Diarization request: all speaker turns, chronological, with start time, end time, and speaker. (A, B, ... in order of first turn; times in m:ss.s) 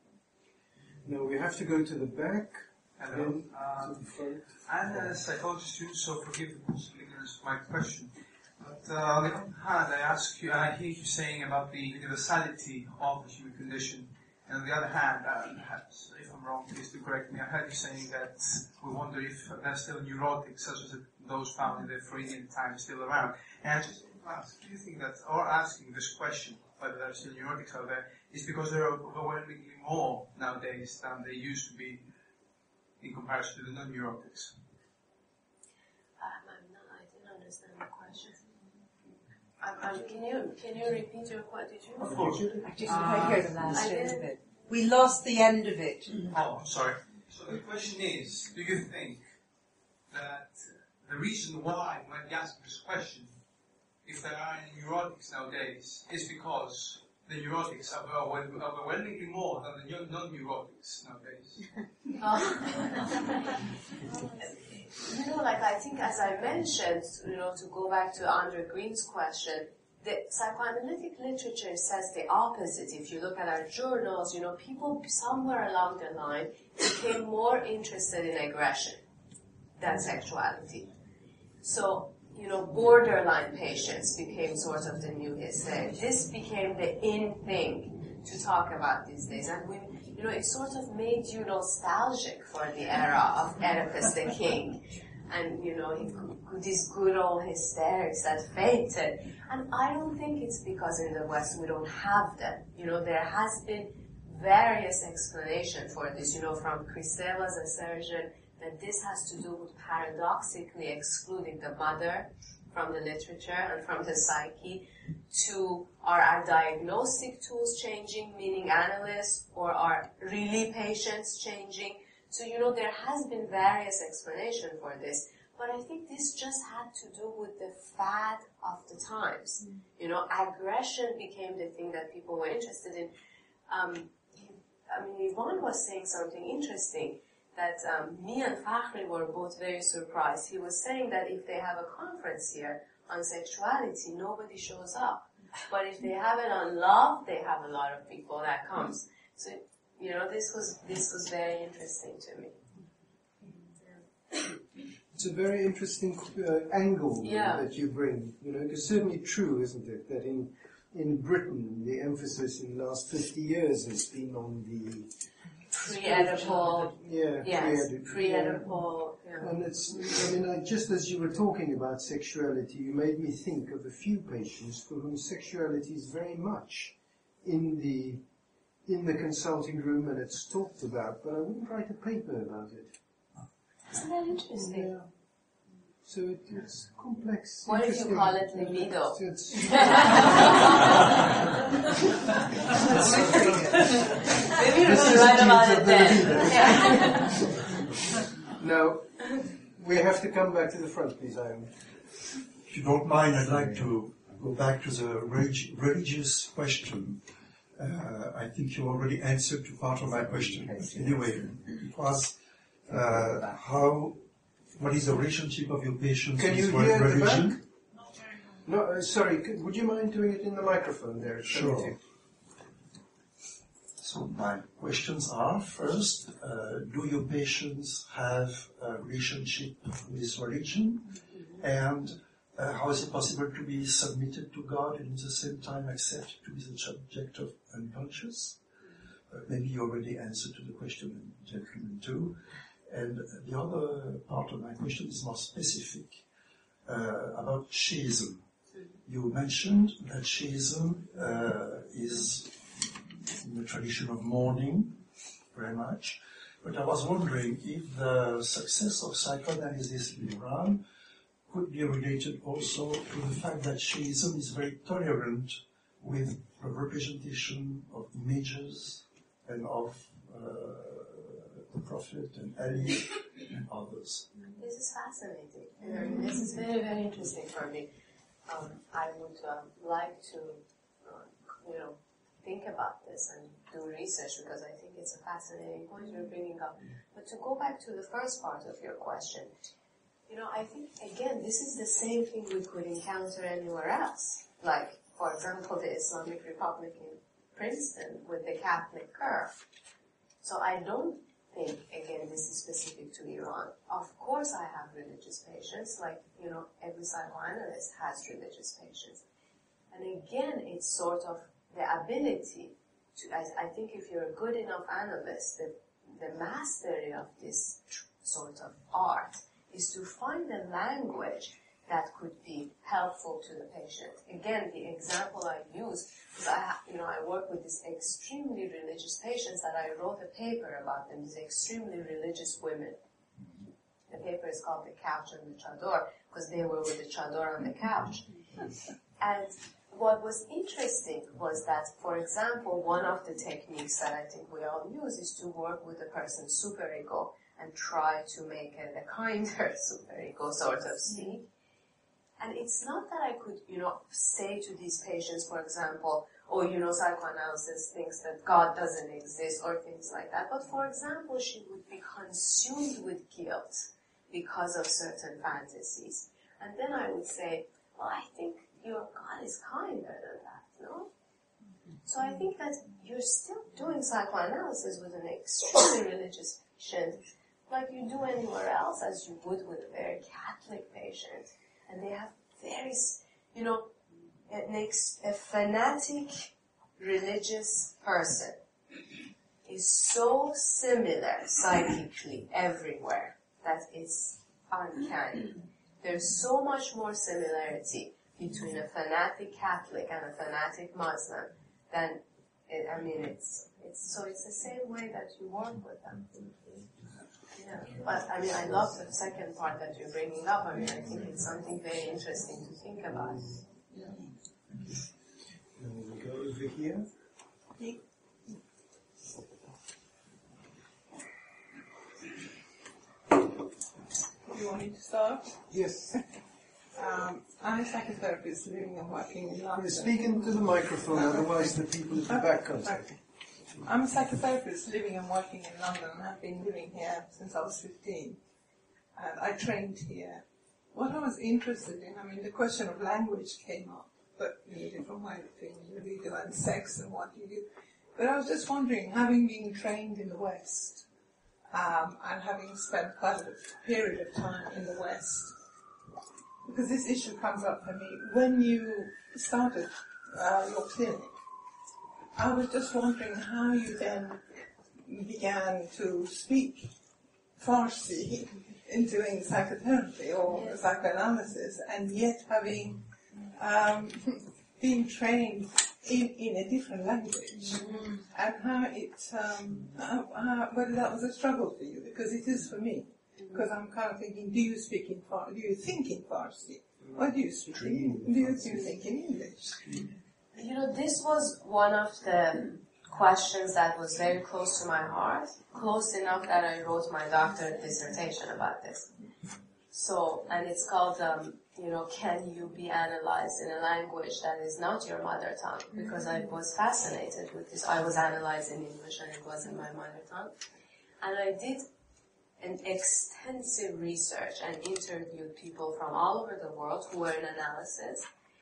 0:01.0-0:05.2 A
0:03.0-0:04.1 B
0:04.7-0:32.1 B
0:33.0-0:34.6 B
0:36.2-0:38.4 C
0:39.6-0:43.0 C
0:42.1-0:46.3 D
0:42.2-0:43.7 B
0:43.7-0:44.2 C
0:46.3-0:49.2 B
0:50.1-0:53.3 B
0:54.0-1:01.6 B
1:02.2-1:03.3 C
1:04.9-1:19.0 C
1:19.8-1:20.9 C
1:21.6-2:13.1 C
2:13.7-2:32.6 C
2:35.2-2:45.1 A
2:37.2-2:37.7 C
2:45.7-2:49.5 C
2:45.8-2:58.2 A
2:58.9-3:03.0 A
3:03.9-3:04.9 C
3:04.5-3:05.1 A
3:06.0-3:11.0 A
3:07.7-3:11.0 C
3:12.8-3:14.1 D
3:12.8-3:13.6 A
3:13.4-3:17.5 C
3:14.7-3:17.4 A
3:18.5-3:21.7 A
3:22.7-3:27.2 E
3:27.8-3:34.2 E
3:30.2-3:31.6 D
3:33.2-3:33.6 D
3:34.8-3:37.6 E
3:36.4-3:37.6 A
3:38.6-3:42.0 A
3:41.4-3:42.0 E
3:44.0-3:58.6 E
3:59.3-4:06.2 E
4:06.9-4:08.5 E
4:09.1-4:12.6 E
4:13.4-4:20.8 E
4:21.5-4:34.3 E
4:34.6-4:37.9 C
4:38.5-4:49.5 C
4:50.3-4:59.6 C
5:00.4-5:09.2 C
5:09.9-5:33.0 C
5:34.1-5:38.3 C
5:39.2-5:51.5 C
5:52.4-6:11.1 C
6:12.0-6:23.9 C
6:24.5-6:28.6 C
6:29.7-6:46.6 C
6:47.6-6:53.6 C
6:55.8-6:57.1 A
7:04.5-7:06.2 F
7:05.7-7:06.2 A
7:07.0-7:13.2 F
7:09.8-7:13.1 A
7:13.8-7:18.4 F
7:19.2-7:31.0 F
7:31.7-7:35.6 F
7:36.7-7:41.4 F
7:42.4-7:46.9 F
7:47.6-8:10.0 F
8:07.4-8:09.0 A
8:10.6-8:19.1 C
8:19.9-8:30.5 C
8:31.2-8:31.8 C
8:32.6-8:38.3 C